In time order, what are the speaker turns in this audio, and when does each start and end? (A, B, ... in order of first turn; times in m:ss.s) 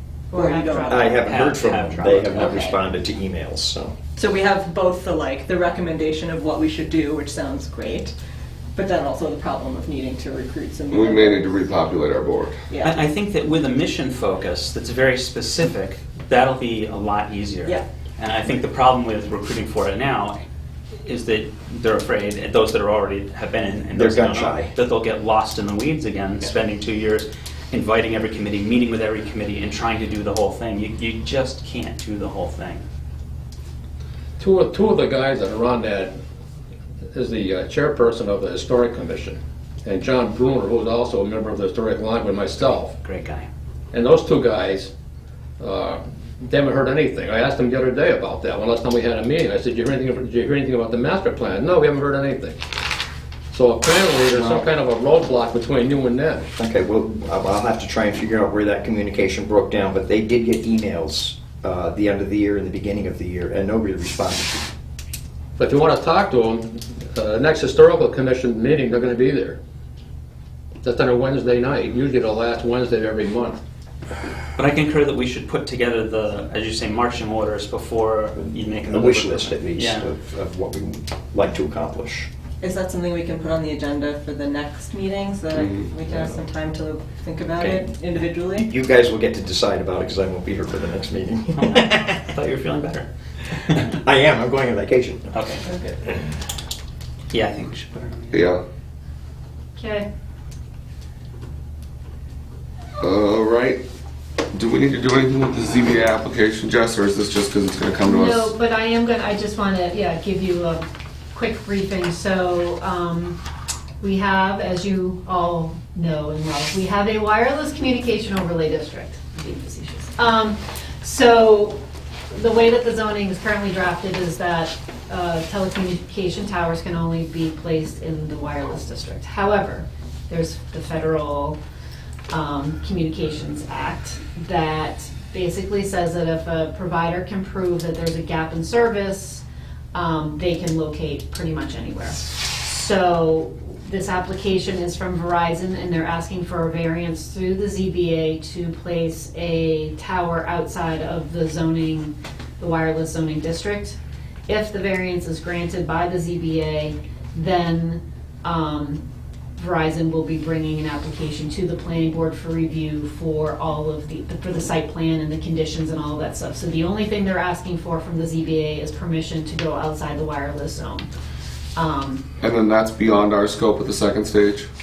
0:00.3-0:01.2 A
0:00.3-0:01.4 B
0:00.9-0:04.0 C
0:01.2-0:02.7 D
0:02.4-0:02.8 B
0:04.2-0:08.1 B
0:08.8-0:11.7 B
0:10.9-0:12.6 E
0:12.7-0:13.0 B
0:12.8-0:20.4 D
0:21.0-0:32.8 D
0:24.0-0:24.7 C
0:34.4-0:36.2 F
0:37.2-0:42.9 F
0:42.6-0:43.5 D
0:43.9-0:44.9 F
0:45.6-0:52.6 F
0:53.5-0:56.4 F
0:56.6-1:04.7 C
1:05.6-1:09.6 F
1:10.8-1:13.6 F
1:14.6-1:20.1 D
1:18.8-1:22.3 C
1:22.6-1:28.7 B
1:28.6-1:32.3 C
1:31.6-1:33.1 D
1:33.7-1:35.3 C
1:35.3-1:35.6 D
1:35.6-1:36.0 B
1:37.3-1:38.5 D
1:38.3-1:38.6 E
1:39.8-1:40.1 A
1:43.0-1:43.8 E
1:44.5-1:48.5 E
1:48.0-1:53.4 A
1:54.0-2:01.8 A
2:02.3-2:11.6 A
2:12.3-2:19.4 A
2:19.9-2:39.0 A
2:39.6-2:51.1 A
2:51.8-2:52.2 A
2:52.4-2:54.7 E